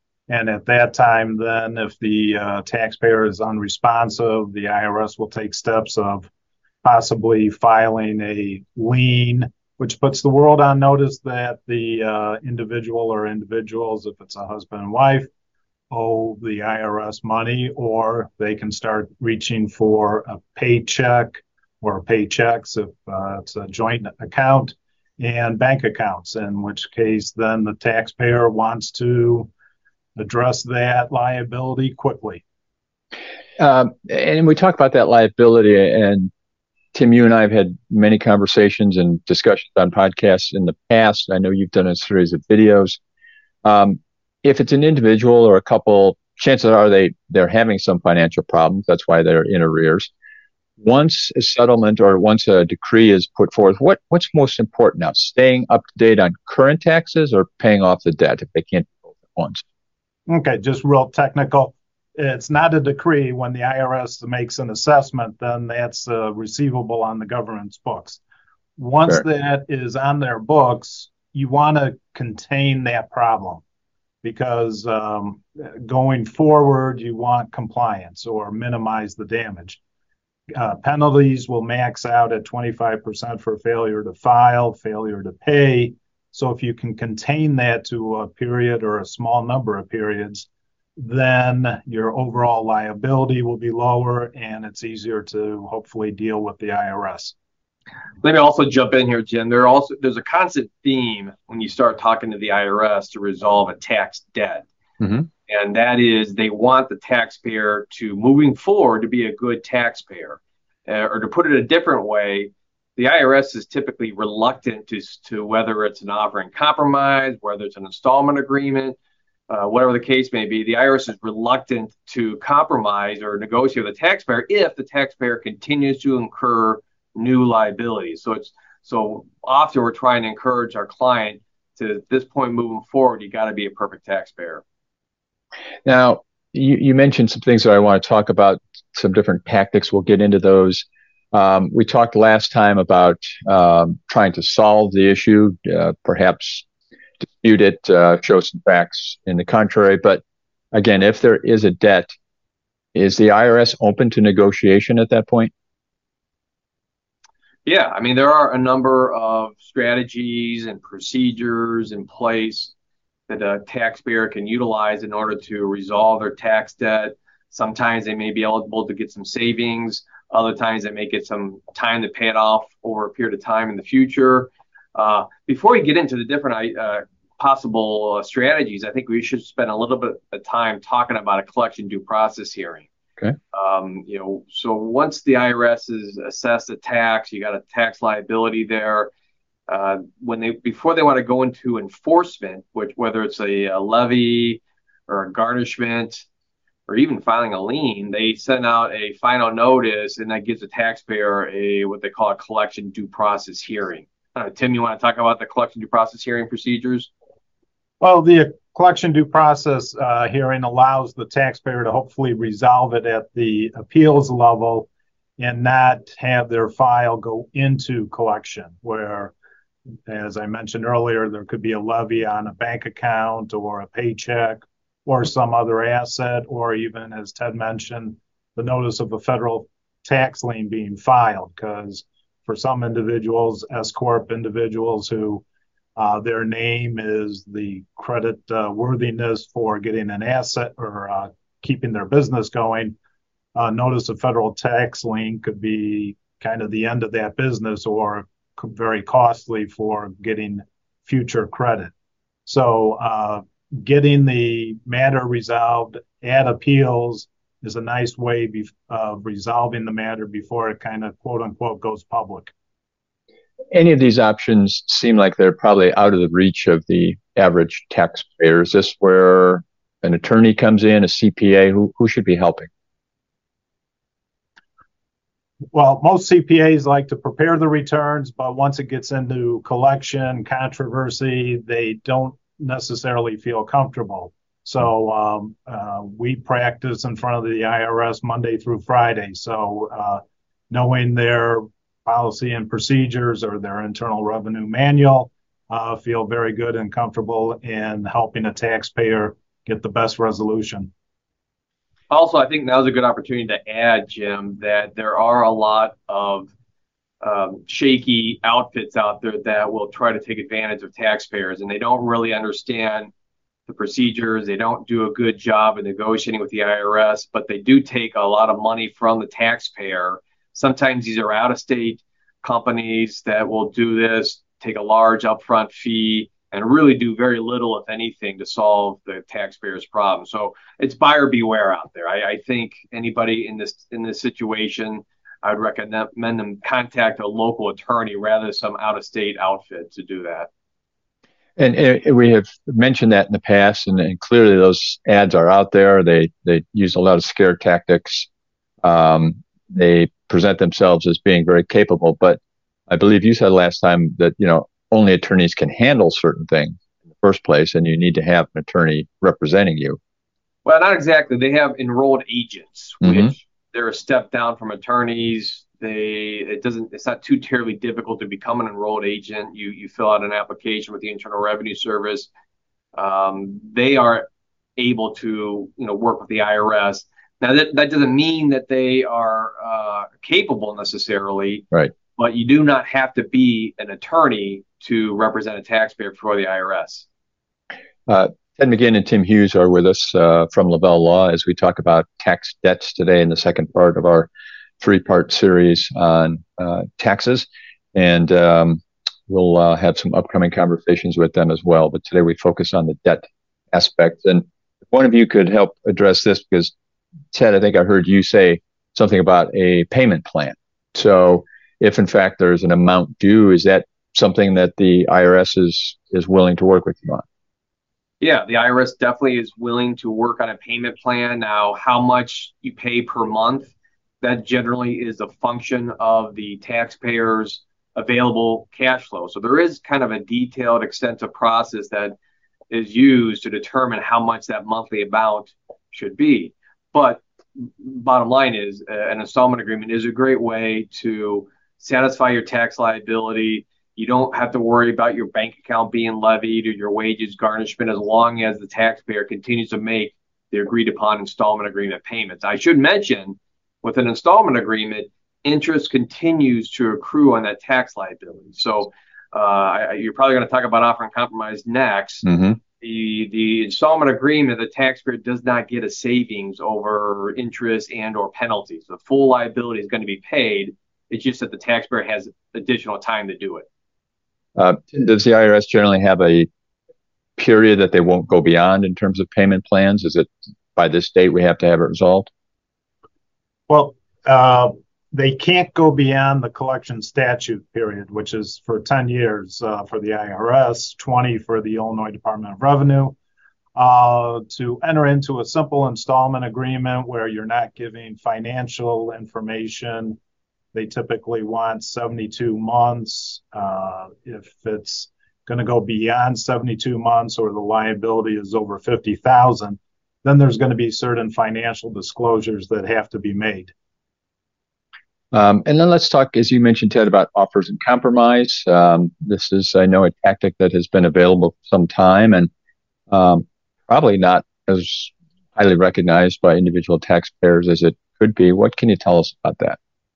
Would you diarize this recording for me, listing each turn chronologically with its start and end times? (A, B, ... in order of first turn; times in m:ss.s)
0:00.3-0:06.3 A
0:06.8-0:15.3 A
0:15.9-0:29.5 A
0:30.2-0:32.4 A
0:33.6-0:36.3 B
0:36.9-0:43.0 B
0:43.6-0:50.1 B
0:50.8-0:59.6 B
1:00.3-1:08.2 A
1:08.8-1:13.6 A
1:14.2-1:19.8 A
1:20.6-1:30.5 A
1:31.0-1:37.3 A
1:38.2-1:44.7 C
1:45.0-1:45.3 B
1:45.5-1:59.0 C
1:59.5-2:14.6 C
2:15.8-2:26.6 B
2:27.2-2:30.2 B
2:30.7-2:32.1 B
2:33.0-2:35.5 B
2:37.7-2:42.7 C
2:43.3-3:02.9 C
3:03.5-3:09.1 C
3:09.7-3:16.2 C
3:16.9-3:27.1 C
3:28.0-3:39.3 A
3:40.1-3:55.4 A
3:56.0-4:03.0 A
4:03.6-4:11.9 A
4:12.5-4:22.5 A
4:23.7-4:32.7 B
4:35.7-5:00.9 A
5:02.1-5:06.5 C
5:07.2-5:13.1 C
5:13.7-5:40.5 C
5:41.6-5:48.3 B
5:48.8-6:00.0 B
6:00.6-6:12.3 C
6:13.0-6:14.3 C
6:14.8-6:27.0 C
6:28.1-6:34.3 B
6:34.8-6:46.7 B
6:47.3-6:57.2 B
6:58.2-7:03.7 C
7:04.2-7:12.2 C
7:12.7-7:17.2 C
7:17.8-7:42.2 C
7:42.3-7:42.6 B
7:42.8-7:53.7 C
7:54.6-7:56.5 B
7:57.4-8:02.3 B
8:03.7-8:13.2 A
8:13.8-8:20.2 A
8:20.7-8:33.7 A
8:35.3-8:42.5 B
8:43.1-8:49.8 B